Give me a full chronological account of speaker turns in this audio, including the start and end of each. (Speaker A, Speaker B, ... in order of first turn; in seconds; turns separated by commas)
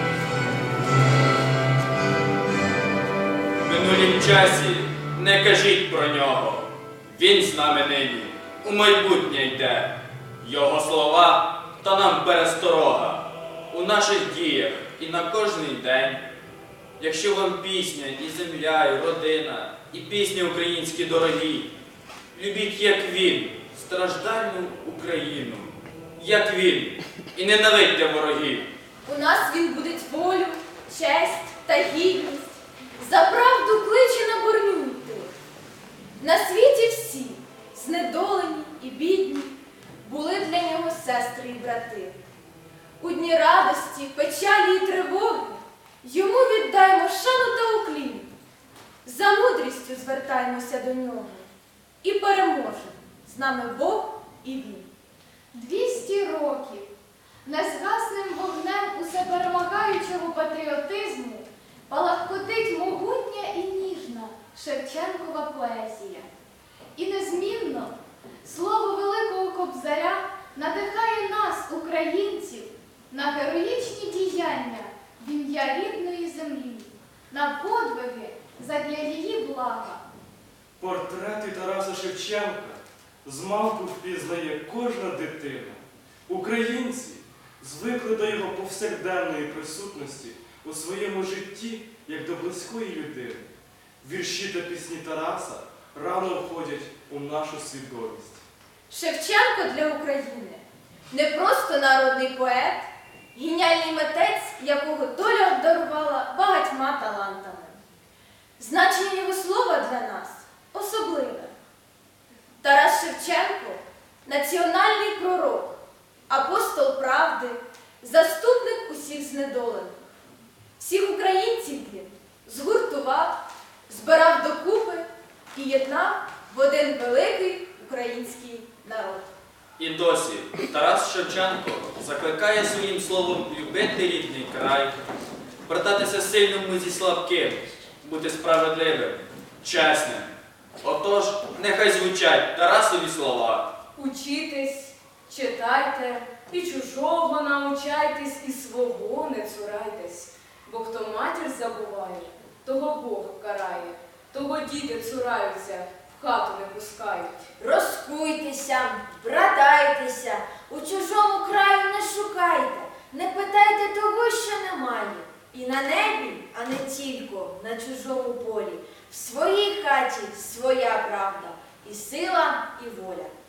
Speaker A: 3.6-9.9, Speaker A: 10.4-16.2, Speaker A: 17.0-21.7, Speaker A: 22.3-28.7, Speaker B: 29.1-35.3, Speaker B: 36.2-42.1, Speaker B: 43.0-48.3, Speaker B: 49.0-51.5, Speaker B: 52.0-54.9, Speaker C: 55.5-56.9, Speaker C: 57.5-66.3, Speaker C: 67.0-80.0, Speaker D: 80.8-93.5, Speaker D: 94.0-98.5, Speaker B: 98.9-107.8, Speaker B: 108.6-111.5, Speaker B: 112.6-115.8, Speaker B: 116.3-120.0, Speaker B: 120.8-123.3, Speaker B: 123.9-129.2, Speaker A: 129.8-135.0, Speaker A: 135.7-143.7, Speaker E: 144.0-157.4, Speaker B: 157.6-173.3